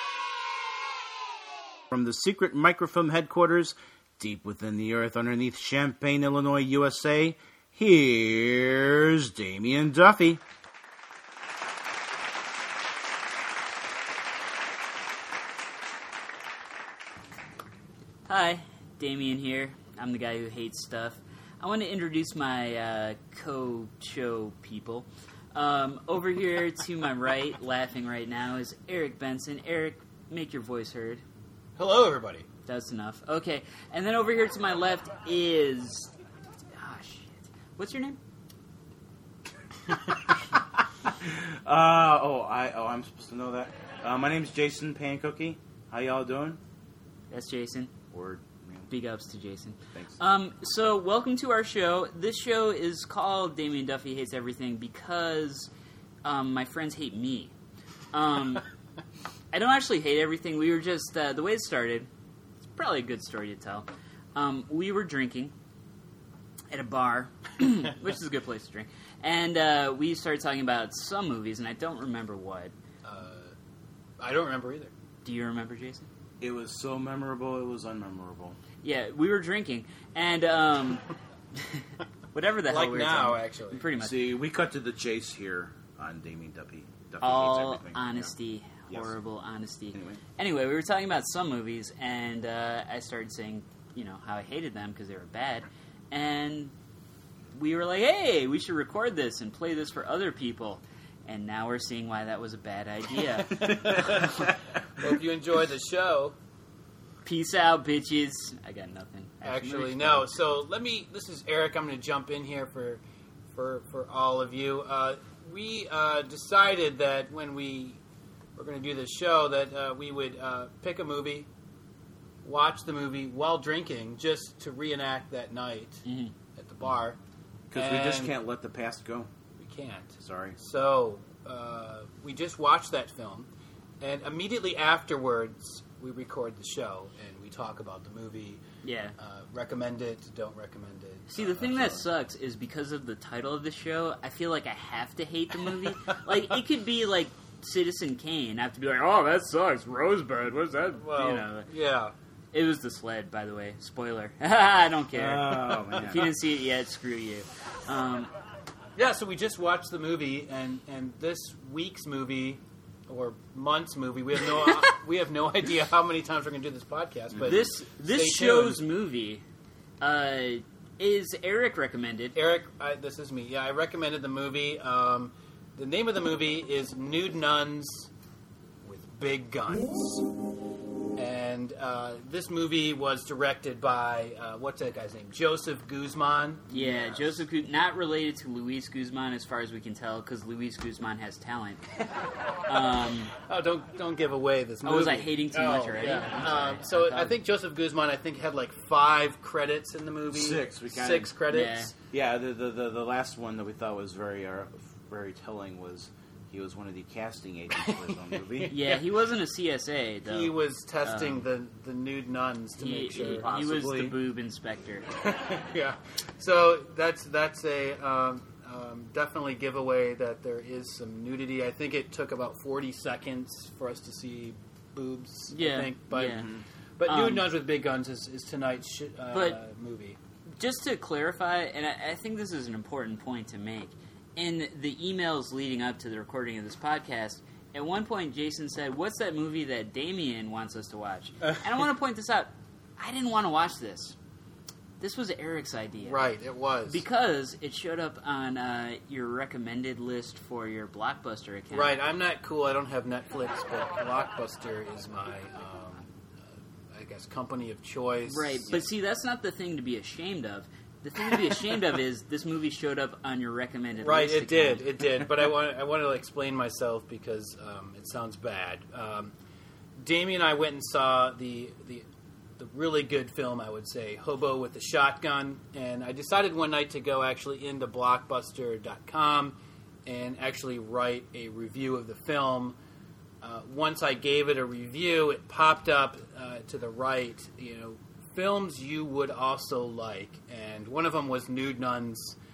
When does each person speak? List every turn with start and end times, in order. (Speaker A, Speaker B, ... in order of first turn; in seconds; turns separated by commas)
Speaker A: 1.9-10.4, Speaker B: 18.2-31.2, Speaker C: 31.8-32.5, Speaker B: 32.6-36.1, Speaker B: 36.7-38.2, Speaker A: 40.4-46.6, Speaker B: 47.3-47.9, Speaker A: 48.1-48.9, Speaker B: 48.9-55.7, Speaker B: 56.2-57.5, Speaker B: 58.1-58.6, Speaker B: 59.5-62.1, Speaker B: 62.7-65.5, Speaker B: 66.7-72.7, Speaker C: 73.0-73.5, Speaker C: 74.2-74.9, Speaker B: 75.2-76.1, Speaker A: 76.4-78.6, Speaker B: 78.8-84.2, Speaker C: 82.7-83.8, Speaker A: 84.0-88.3, Speaker B: 87.2-96.7, Speaker A: 89.9-90.2, Speaker B: 97.5-104.5, Speaker C: 103.4-106.3, Speaker B: 107.2-110.3, Speaker C: 109.4-113.0, Speaker C: 113.5-118.0, Speaker C: 118.6-121.5, Speaker C: 122.4-127.2, Speaker B: 126.0-126.3, Speaker A: 127.7-129.3, Speaker C: 127.7-128.3, Speaker C: 129.6-133.5, Speaker A: 130.2-130.6, Speaker C: 134.0-138.6, Speaker B: 138.8-139.2, Speaker C: 139.2-142.0, Speaker B: 141.3-151.7, Speaker C: 150.9-152.1, Speaker B: 152.5-158.3, Speaker A: 155.1-156.3, Speaker C: 159.0-168.8, Speaker B: 167.4-169.4, Speaker B: 170.0-172.3, Speaker C: 172.3-178.1, Speaker C: 178.8-180.3, Speaker C: 181.1-187.4, Speaker B: 186.7-191.8, Speaker B: 192.7-193.3, Speaker C: 193.4-201.9, Speaker B: 194.8-197.4, Speaker A: 200.3-201.3, Speaker B: 201.5-201.9, Speaker A: 202.1-208.8, Speaker C: 207.8-209.0, Speaker B: 208.7-211.4, Speaker C: 210.2-213.9, Speaker B: 212.8-215.1, Speaker A: 213.4-214.1, Speaker C: 215.1-230.2, Speaker B: 225.5-226.5, Speaker B: 227.1-227.5, Speaker B: 229.3-229.6, Speaker B: 230.6-244.2, Speaker B: 245.0-246.3, Speaker C: 246.0-247.0, Speaker B: 246.9-252.0, Speaker C: 251.7-256.1, Speaker C: 256.9-258.8, Speaker B: 258.3-264.9, Speaker C: 264.0-269.3, Speaker C: 270.0-272.1, Speaker C: 272.6-282.8, Speaker C: 283.4-292.4